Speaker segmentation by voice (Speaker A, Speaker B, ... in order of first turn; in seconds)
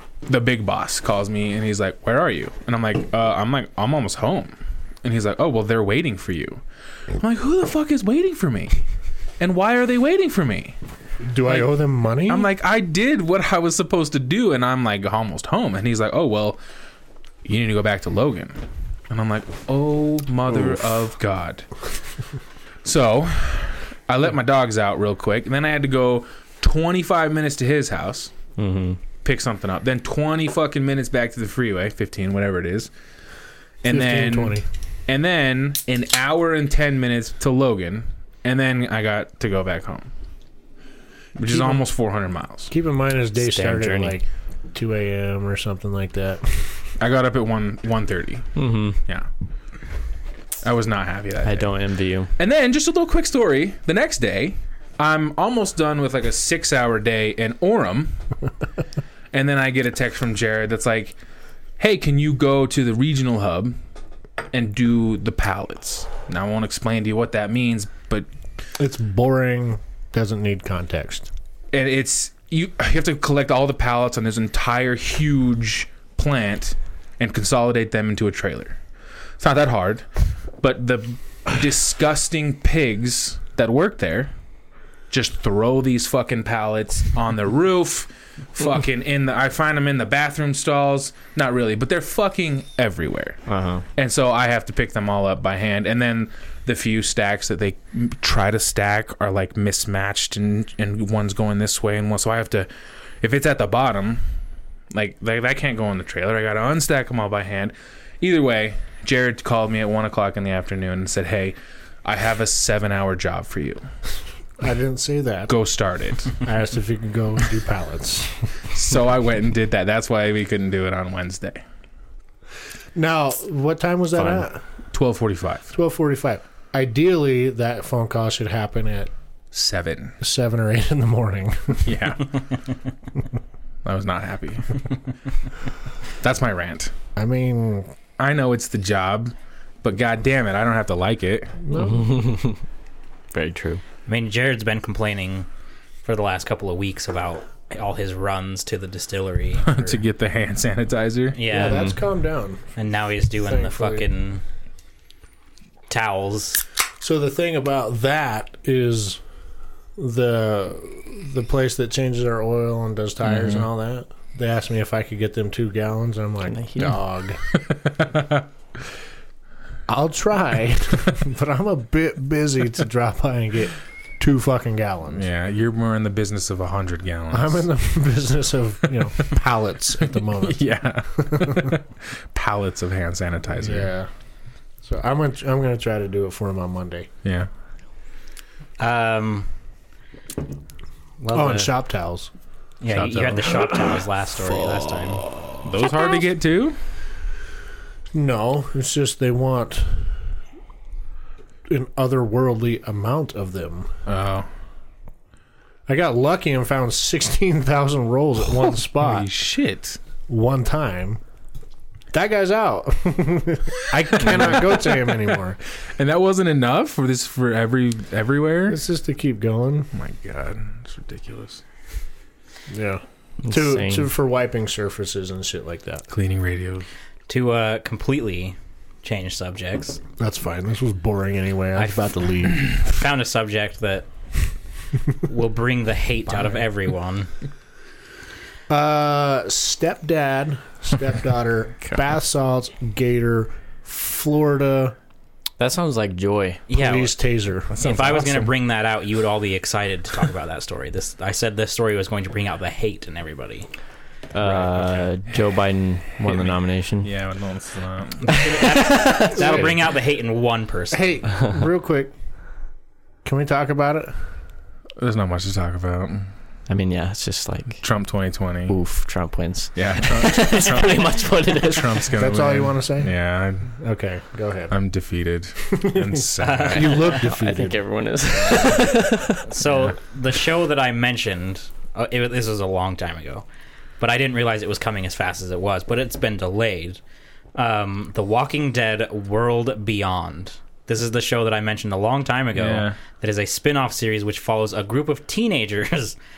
Speaker A: 0.2-6.6, 7.1-8.8, 9.4-10.8, 11.4-11.7, 12.3-16.6, 17.4-18.6, 19.1-21.7, 22.8-28.3, 29.2-32.9, 33.8-40.1, 41.4-42.7, 47.0-49.3, 50.6-51.7, 52.4-58.2, 59.3-61.2, 61.8-63.8, 64.5-68.3, 71.7-78.8, 79.4-80.0, 80.6-84.3, 85.1-93.4, 94.0-102.7, 103.2-104.2, 104.9-113.8, 115.5-116.4, 118.7-121.6, 124.9-125.7, 129.5-130.2, 131.8-132.3, 133.8-134.8, 136.2-136.9, 138.2-141.6, 149.6-151.4, 163.3-163.6, 167.5-168.4, 175.1-177.7, 180.3-183.9, 187.2-187.5, 192.9-193.8, 195.6-196.8, 204.1-204.5, 209.0-210.0, 213.9-215.1, 216.0-218.8, 219.9-221.6, 226.1-226.9, 254.4-255.1, 256.2-258.3, 265.0-266.3, 267.8-268.8, 269.8-273.7, 274.7-277.2, 292.5-293.0
Speaker B: 11.2-12.5, 33.9-34.6, 41.5-41.8, 42.7-46.8, 68.8-71.3, 114.6-115.5, 116.4-118.4, 122.9-124.6, 125.7-129.1, 130.2-132.0, 137.2-137.9, 141.6-142.1, 151.5-152.6, 153.4-154.1, 157.0-159.2, 160.0-167.4, 169.9-175.2, 177.3-180.6, 181.2-181.7, 183.6-184.1, 184.8-187.1, 191.3-192.3, 198.1-200.1, 201.7-203.9, 205.9-209.3, 210.3-211.2, 212.1-215.6, 218.7-219.9, 222.7-226.0, 230.2-232.8, 238.7-244.9, 246.7-248.4, 259.3-259.7, 260.9-262.1, 263.2-264.2, 272.1-273.1, 273.6-274.7, 275.7-277.8
Speaker C: 28.6-29.0, 43.5-44.1, 48.5-49.0, 51.4-52.3, 93.5-93.8, 124.2-124.4, 141.7-142.6, 143.3-143.8, 151.5-151.9, 166.5-167.0, 223.4-224.1, 245.6-246.6, 254.3-257.1, 258.3-259.6, 266.7-267.8, 268.7-272.1, 277.2-279.5
Speaker D: 43.8-44.1, 144.1-145.5, 146.0-150.0, 151.3-151.9, 152.8-154.4, 155.9-156.6, 188.8-189.5, 191.2-191.7, 192.8-195.2, 227.3-230.0, 231.8-234.1, 235.2-237.3, 246.7-247.1, 247.8-253.7, 258.2-261.2, 276.4-277.2, 279.4-283.4, 284.0-287.0, 287.5-296.1